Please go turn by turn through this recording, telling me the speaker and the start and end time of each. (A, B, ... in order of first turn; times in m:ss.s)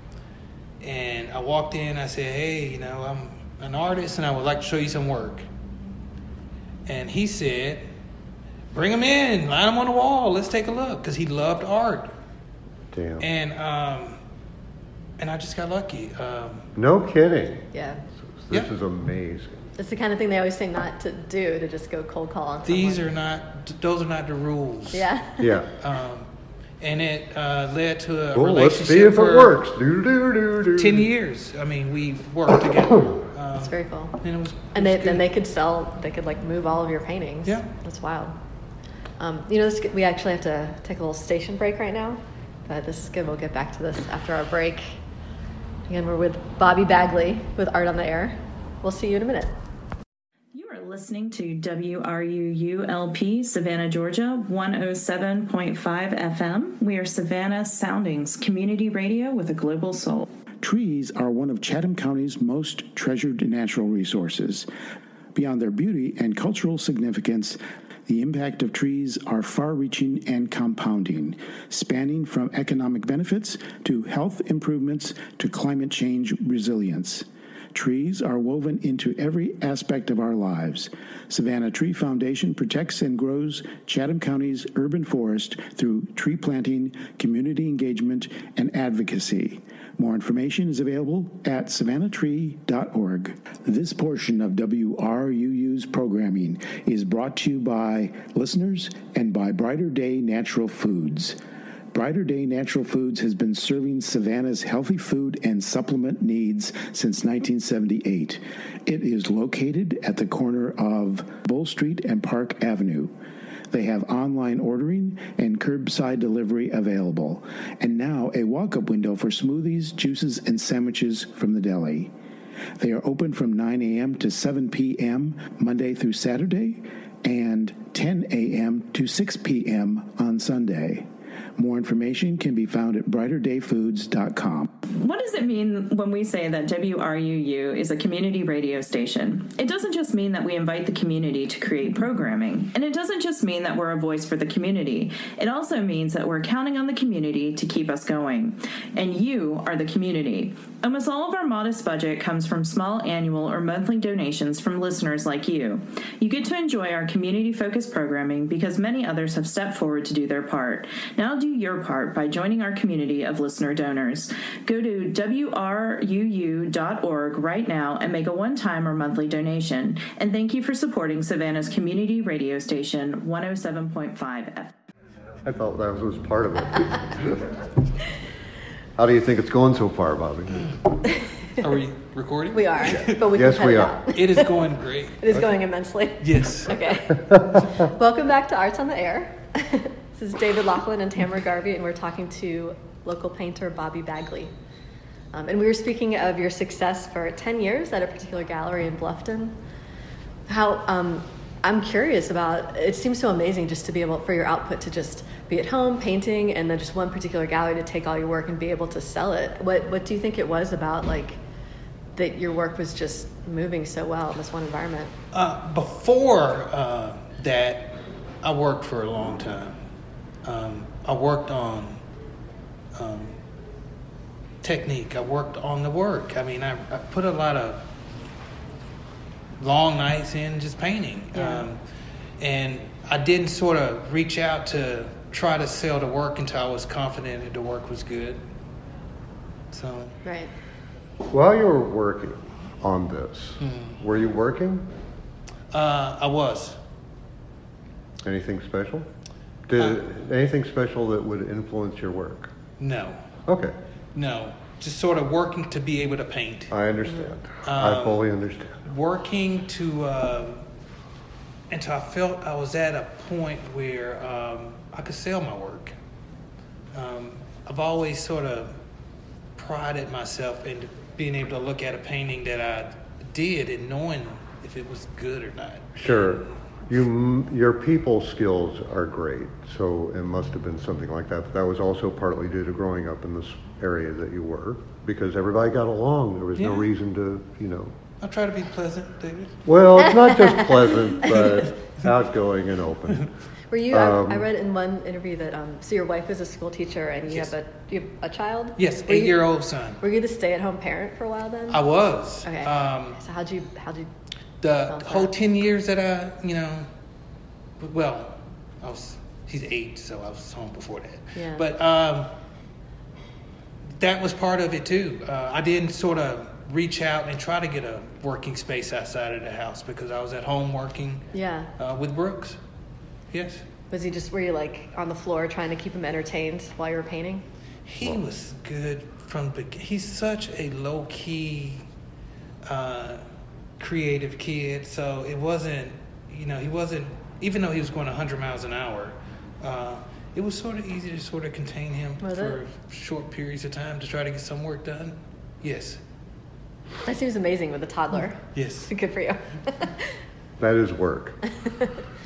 0:00.8-0:05.5 A
0:06.9-0:07.9 A
0:08.7-0:12.1 A
0:12.9-0:13.3 B
0:13.2-0:14.2 A
0:15.2-0:16.7 A
0:16.8-0:17.7 B
0:17.7-0:18.0 C
0:18.2-0:19.7 B
0:19.8-0:23.1 C
0:22.6-0:25.1 A
0:24.9-0:25.6 C
0:25.4-0:25.7 B
0:25.8-0:26.3 A
0:26.8-0:29.6 A
0:28.3-0:31.1 B
0:30.8-0:35.2 A
0:33.6-0:34.2 C
0:34.7-0:38.4 C
0:39.2-0:45.0 C
0:45.9-0:49.6 C
0:50.5-1:00.3 D
1:00.6-1:04.7 E
1:05.3-1:41.4 E
1:41.9-1:53.1 E
1:53.7-2:02.1 E
2:02.8-2:11.1 E
2:11.6-2:14.7 E
2:14.9-2:54.7 D
2:55.4-2:57.6 B
2:59.0-3:00.8 B
3:01.6-3:03.3 A
3:02.5-3:04.5 C
3:02.8-3:04.0 B
3:04.1-3:05.4 A
3:05.2-3:14.5 C
3:06.2-3:06.8 A
3:15.3-3:19.6 C
3:20.5-3:31.4 C
3:32.1-3:35.1 C
3:35.3-3:39.8 A
3:40.4-3:42.0 A
3:43.0-3:43.4 A
3:44.6-3:47.9 A
3:49.6-3:51.8 A
3:51.4-3:51.6 C
3:52.4-3:58.4 A
3:59.7-4:00.1 A
4:00.2-4:00.5 C
4:01.3-4:04.9 B
4:03.6-4:04.0 A
4:05.7-4:06.8 A
4:08.2-4:09.1 B
4:09.7-4:12.5 B
4:12.8-4:13.2 A
4:13.5-4:13.8 B
4:14.1-4:16.7 A
4:16.7-4:18.8 B
4:17.6-4:18.3 A
4:18.8-4:20.6 A
4:21.7-4:26.0 A
4:26.9-4:28.7 A
4:29.6-4:36.4 A
4:36.0-4:48.0 B
4:46.6-4:46.9 A
4:48.2-4:49.6 A
4:49.6-4:53.3 B
4:50.2-4:50.7 C
4:53.7-4:59.4 C
4:53.9-4:54.5 B
4:58.8-5:00.0 A
5:00.0-5:01.8 C
5:01.7-5:03.2 A
5:02.4-5:04.1 C
5:04.6-5:06.9 A
5:04.9-5:05.3 C
5:07.8-5:12.3 A
5:11.4-5:11.6 C
5:14.0-5:21.3 A
5:21.3-5:21.7 C
5:21.8-5:22.6 A
5:23.3-5:23.6 A
5:23.9-5:27.4 C
5:27.8-5:31.8 A
5:32.6-5:33.2 A
5:33.8-5:46.0 A
5:42.2-5:42.6 C
5:47.0-5:50.1 C
5:48.5-5:48.9 A
5:50.6-5:51.4 B
5:51.6-5:51.9 C